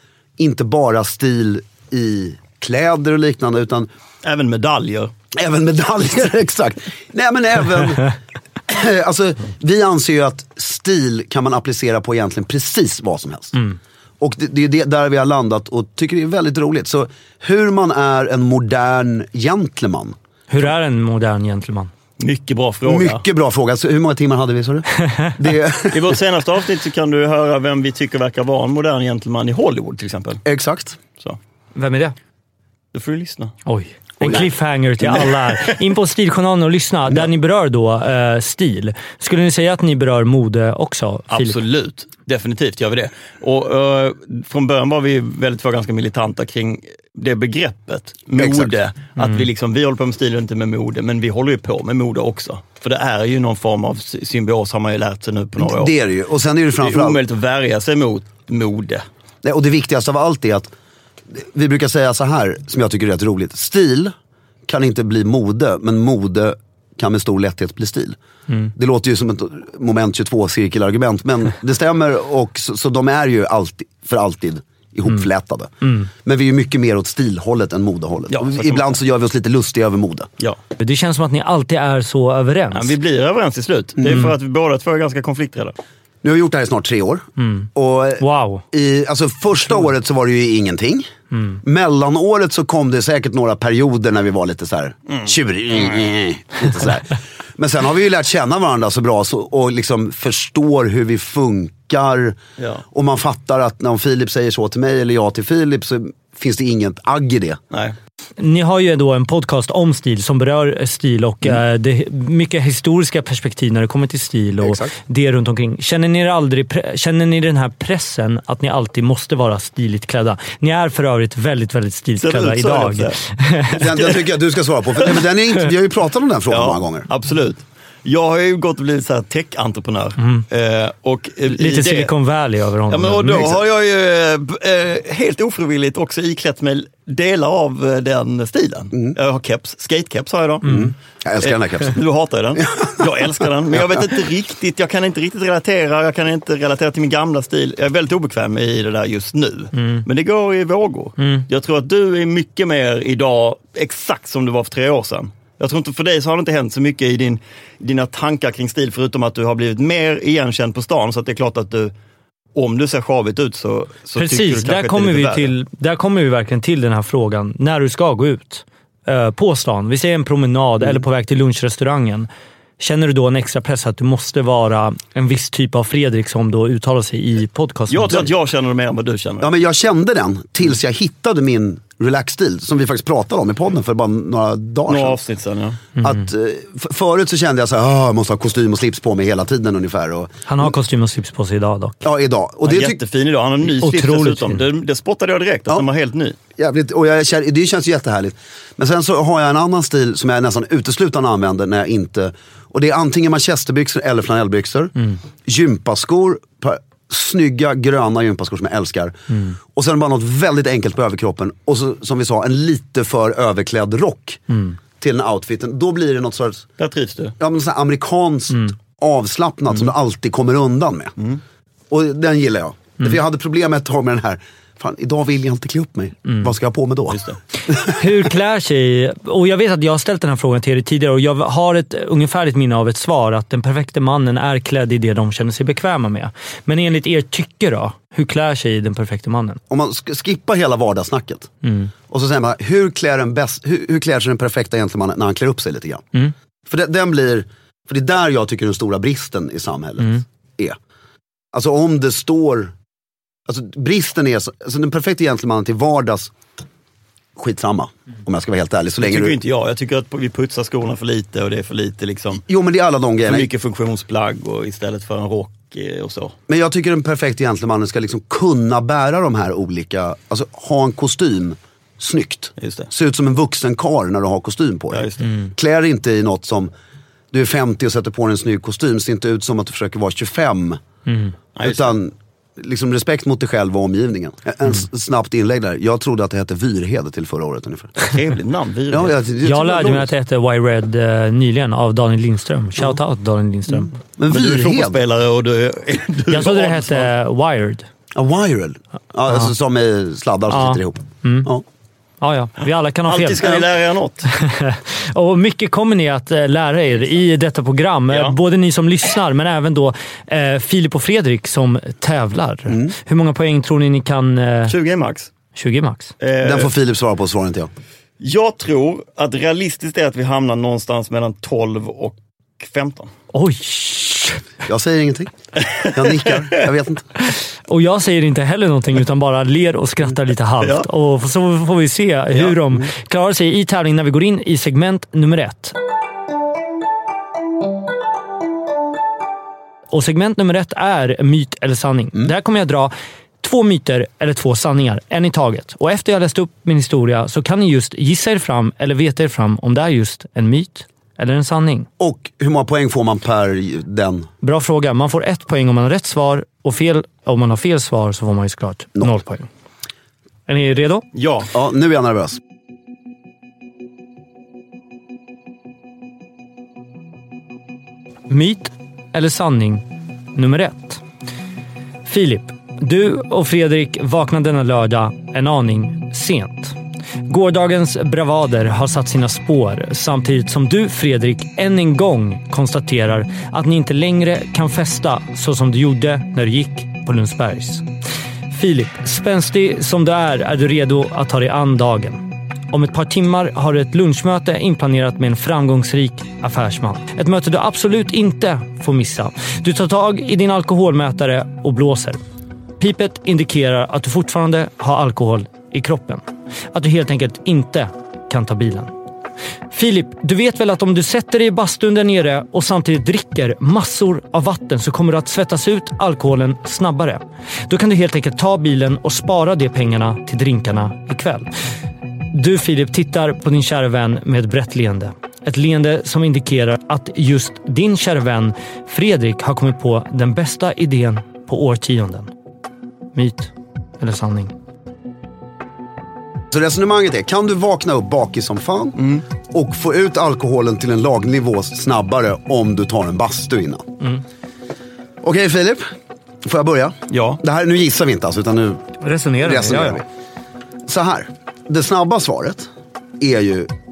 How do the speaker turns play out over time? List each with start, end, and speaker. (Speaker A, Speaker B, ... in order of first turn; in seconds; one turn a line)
Speaker A: 0.4-3.9
Speaker B: 4.2-5.1
Speaker A: 5.3-8.1
Speaker A: 8.7-13.6
Speaker A: 14.2-20.1
Speaker C: 20.5-21.9
Speaker B: 22.2-23.2
Speaker A: 22.9-26.1
Speaker B: 25.9-30.4
Speaker A: 30.4-31.0
Speaker C: 31.7-32.1
Speaker B: 32.9-33.5
Speaker C: 33.6-41.5
Speaker B: 41.3-55.9
Speaker A: 48.4-48.8
Speaker C: 49.2-49.4
Speaker A: 55.6-57.2
Speaker B: 56.8-59.0
Speaker A: 59.4-60.7
Speaker A: 61.3-64.1
Speaker A: 64.7-68.2
Speaker A: 68.7-80.3
Speaker B: 78.3-79.0
Speaker C: 80.8-83.0
Speaker B: 82.7-85.8
Speaker A: 86.2-91.1
Speaker C: 87.4-87.7
Speaker C: 88.2-88.6
Speaker C: 91.3-91.6
Speaker A: 91.6-102.4
Speaker A: 102.9-107.6
Speaker B: 107.7-108.0
Speaker C: 108.4-123.8
Speaker A: 114.6-114.9
Speaker B: 122.2-123.2
Speaker A: 123.7-127.1
Speaker B: 123.9-124.2
Speaker B: 126.5-132.1
Speaker C: 130.2-130.4
Speaker C: 131.5-133.5
Speaker B: 132.9-140.7
Speaker A: 133.3-133.6
Speaker A: 140.6-142.0
Speaker C: 140.6-140.9
Speaker B: 141.4-161.9
Speaker A: 142.6-143.1
Speaker C: 149.8-150.0
Speaker B: 162.5-165.5
Speaker C: 164.2-172.3
Speaker C: 172.8-178.3
Speaker B: 177.9-179.5
Speaker A: 179.4-185.2
Speaker B: 184.9-185.8
Speaker A: 186.0-190.7
Speaker C: 190.5-192.0
Speaker A: 192.0-193.0
Speaker B: 192.6-196.3
Speaker C: 193.7-194.6
Speaker A: 196.6-216.7
Speaker B: 216.8-217.3
Speaker A: 217.4-221.1
Speaker A: 221.9-227.9
Speaker B: 227.1-227.4
Speaker C: 227.8-239.6
Speaker A: 239.7-241.5
Speaker C: 241.6-241.9
Speaker A: 242.1-246.1
Speaker A: 246.7-250.8
Speaker A: 251.5-252.7
Speaker A: 253.5-256.3
Speaker A: 257.4-259.4
Speaker B: 259.0-262.4
Speaker A: 262.4-263.5
Speaker B: 263.2-266.3
Speaker A: 266.5-276.7
Speaker B: 272.6-272.9
Speaker B: 274.9-275.2
Speaker A: 277.3-280.8
Speaker C: 281.1-281.3
Speaker B: 281.6-281.9
Speaker A: 281.6-288.0
Speaker B: 288.1-289.2
Speaker A: 288.9-290.1
Speaker C: 289.4-293.9
Speaker A: 293.9-295.0
Speaker B: 294.3-297.1
Speaker C: 296.3-297.9
Speaker A: 298.1-301.6
Speaker C: 300.5-301.5
Speaker C: 302.2-303.7
Speaker B: 303.1-304.3
Speaker C: 304.2-314.7
Speaker B: 308.1-308.4
Speaker B: 314.7-315.3
Speaker C: 315.5-316.1
Speaker B: 316.2-316.7
Speaker A: 316.4-317.7
Speaker B: 318.2-323.1
Speaker C: 323.3-324.4
Speaker A: 324.6-325.3
Speaker B: 325.6-326.6
Speaker A: 325.8-327.1
Speaker C: 327.7-335.7
Speaker C: 339.9-351.9
Speaker A: 352.0-354.3
Speaker C: 354.4-359.5
Speaker C: 360.5-361.0
Speaker B: 361.1-361.5
Speaker A: 361.5-362.4
Speaker C: 368.3-369.8
Speaker C: 370.3-371.0
Speaker C: 372.0-376.8
Speaker C: 377.3-387.8
Speaker C: 388.5-402.2
Speaker C: 402.8-408.9
Speaker C: 409.7-421.5
Speaker C: 422.3-432.3
Speaker C: 433.1-434.5
Speaker A: 436.5-439.0
Speaker B: 439.0-439.2
Speaker A: 439.5-443.9
Speaker A: 445.2-445.9
Speaker A: 446.4-448.8
Speaker B: 447.1-447.4
Speaker C: 449.0-450.0
Speaker A: 449.4-450.0
Speaker A: 450.9-452.7
Speaker A: 453.2-453.7